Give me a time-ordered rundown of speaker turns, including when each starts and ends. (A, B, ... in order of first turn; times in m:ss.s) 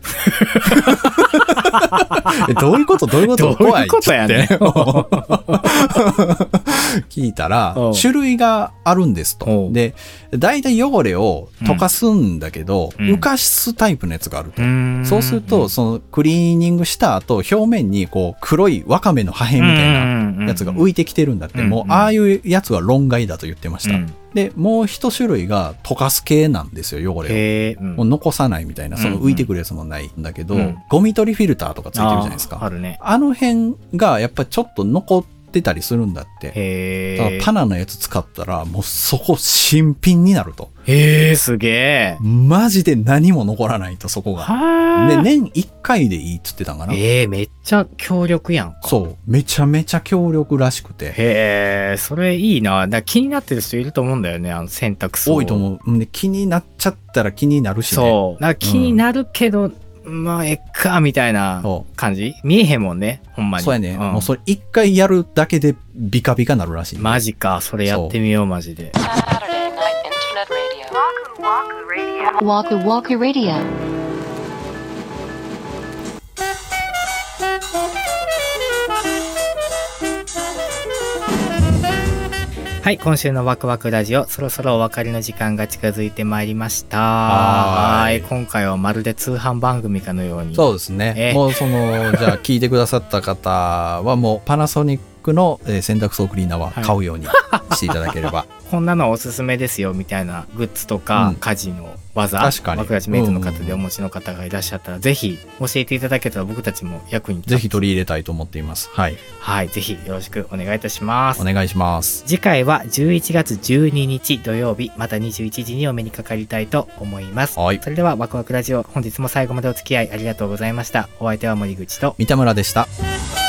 0:00.2-0:02.5 A
0:00.7-0:27.4 B
0:03.3-0:05.6 A
0:07.7-0:08.1 A
0:09.4-0:09.8 A
0:11.6-0:11.9 A
0:13.0-0:13.3 A
0:14.6-0:15.7 A
0:19.6-0:20.9 A
0:21.5-0:22.1 A
0:23.8-0:24.2 A
0:27.2-0:28.0 A
0:28.0-0:36.6 B
0:29.0-0:29.5 A
0:30.5-0:30.8 A
0:31.9-0:33.0 A
0:36.5-0:37.5 A
0:37.2-0:40.7 B
0:40.8-0:42.2 A
0:42.2-0:47.0 B
0:44.4-0:45.3 A
0:46.9-0:49.0 A
0:48.8-0:51.2 B
0:51.1-0:55.6 A
0:55.2-0:59.0 B
0:57.9-1:04.3 A
1:03.6-1:07.2 B
1:07.0-1:08.9 A
1:07.8-1:08.2 B
1:09.0-1:11.0 C
1:12.2-1:13.7 C
1:22.8-1:31.4 A
1:27.2-1:28.3 B
1:30.5-1:38.5 B
1:36.7-1:47.9 A
1:41.1-1:41.4 B
1:42.4-1:43.8 B
1:47.5-1:49.2 B
1:49.4-1:51.4 A
1:51.4-1:52.2 B
1:52.2-2:02.2 A
1:57.6-1:57.8 B
2:02.2-2:02.9 B